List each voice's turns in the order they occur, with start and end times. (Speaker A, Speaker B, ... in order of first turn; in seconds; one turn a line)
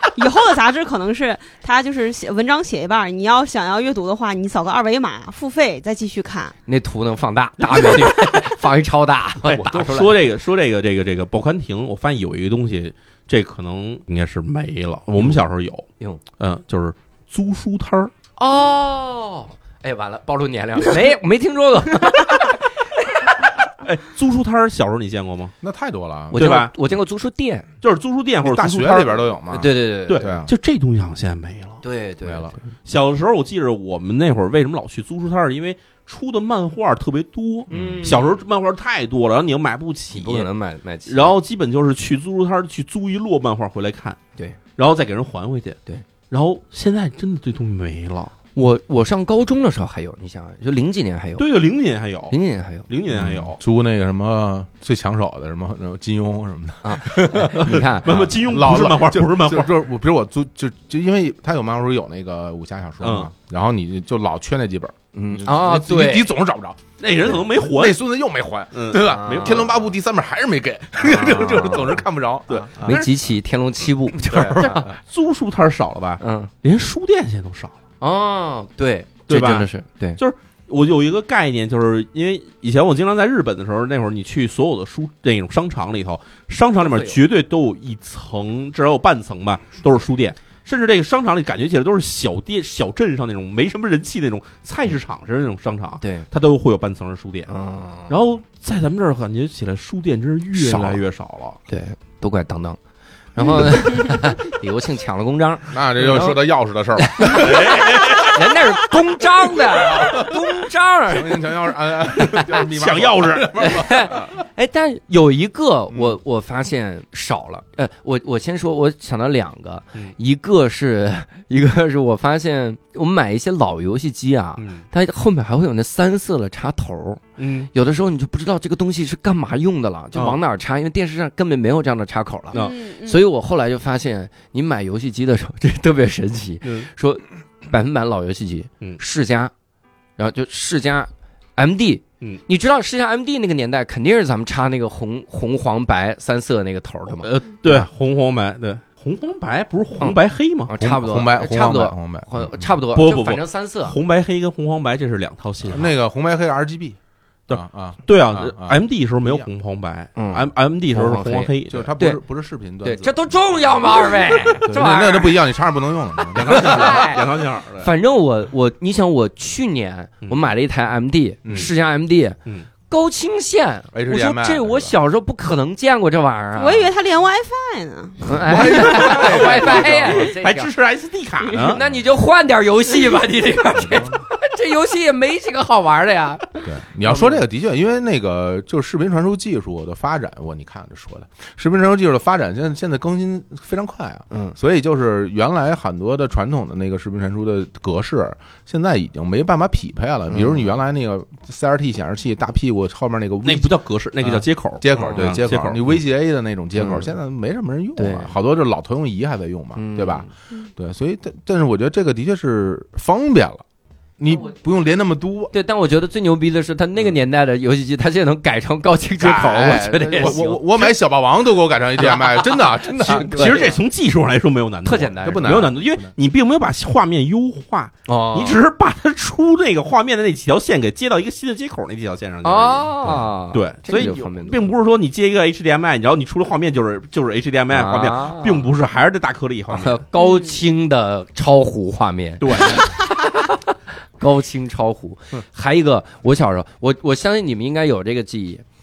Speaker A: 0.1-6.5
Speaker B: 6.7-10.2
Speaker C: 9.4-15.8
Speaker C: 16.4-18.1
Speaker B: 18.4-23.6
Speaker C: 23.8-25.5
Speaker D: 25.6-26.4
Speaker B: 26.3-27.7
Speaker C: 26.3-26.7
Speaker C: 27.8-29.2
Speaker D: 28.4-30.5
Speaker B: 29.5-30.3
Speaker C: 30.1-31.8
Speaker B: 31.8-32.6
Speaker D: 32.2-32.5
Speaker C: 32.8-40.5
Speaker D: 37.7-38.1
Speaker B: 37.7-38.3
Speaker B: 40.1-41.3
Speaker C: 41.1-44.2
Speaker C: 44.8-45.8
Speaker C: 46.3-48.3
Speaker B: 48.5-51.5
Speaker C: 51.4-53.6
Speaker B: 52.3-52.9
Speaker D: 53.1-73.0
Speaker B: 56.8-58.3
Speaker C: 57.6-59.7
Speaker C: 63.0-63.3
Speaker B: 65.1-66.3
Speaker C: 67.0-68.0
Speaker C: 68.7-69.9
Speaker B: 69.0-69.7
Speaker B: 71.0-72.0
Speaker C: 72.5-73.1
Speaker B: 72.8-74.9
Speaker D: 74.2-74.9
Speaker C: 74.2-77.7
Speaker B: 76.2-76.5
Speaker B: 78.0-80.2
Speaker C: 79.3-97.5
Speaker B: 86.8-87.2
Speaker B: 96.0-96.2
Speaker B: 97.5-98.1
Speaker C: 98.1-101.6
Speaker B: 100.5-101.0
Speaker B: 101.7-102.8
Speaker B: 103.3-106.4
Speaker D: 105.7-108.2
Speaker B: 107.0-111.5
Speaker C: 107.2-108.4
Speaker D: 109.7-110.4
Speaker D: 111.1-114.4
Speaker B: 112.1-112.6
Speaker C: 112.5-113.5
Speaker B: 113.6-127.2
Speaker D: 115.9-116.2
Speaker C: 124.6-124.8
Speaker C: 127.4-127.7
Speaker B: 127.7-139.5
Speaker C: 130.1-130.4
Speaker A: 132.5-133.2
Speaker C: 136.6-136.9
Speaker B: 140.2-147.9
Speaker C: 147.2-150.7
Speaker B: 150.0-153.9
Speaker D: 150.8-152.7
Speaker C: 152.9-155.9
Speaker D: 155.6-157.0
Speaker C: 157.5-161.9
Speaker D: 157.5-159.5
Speaker B: 160.2-162.2
Speaker D: 161.7-163.2
Speaker B: 162.8-165.4
Speaker D: 164.6-167.1
Speaker C: 166.3-167.9
Speaker B: 166.4-167.2
Speaker B: 167.8-172.4
Speaker D: 171.4-171.7
Speaker B: 172.9-176.9
Speaker D: 173.9-174.9
Speaker A: 176.5-178.2
Speaker B: 178.2-180.7
Speaker D: 178.4-180.3
Speaker C: 178.8-181.8
Speaker B: 181.6-187.4
Speaker D: 183.7-184.2
Speaker D: 186.6-213.6
Speaker B: 194.3-194.6
Speaker B: 200.3-200.7
Speaker C: 203.4-205.9
Speaker B: 204.9-205.3
Speaker B: 206.8-207.1
Speaker B: 207.9-208.3
Speaker B: 209.7-210.3
Speaker D: 214.2-215.5
Speaker B: 215.5-220.9
Speaker D: 219.2-223.7
Speaker B: 222.0-223.8
Speaker C: 223.1-240.0
Speaker B: 224.8-225.7
Speaker D: 225.2-226.1
Speaker B: 228.1-228.6
Speaker B: 232.4-234.7
Speaker B: 237.7-238.7
Speaker B: 239.7-248.6
Speaker A: 240.1-240.6
Speaker C: 242.4-242.9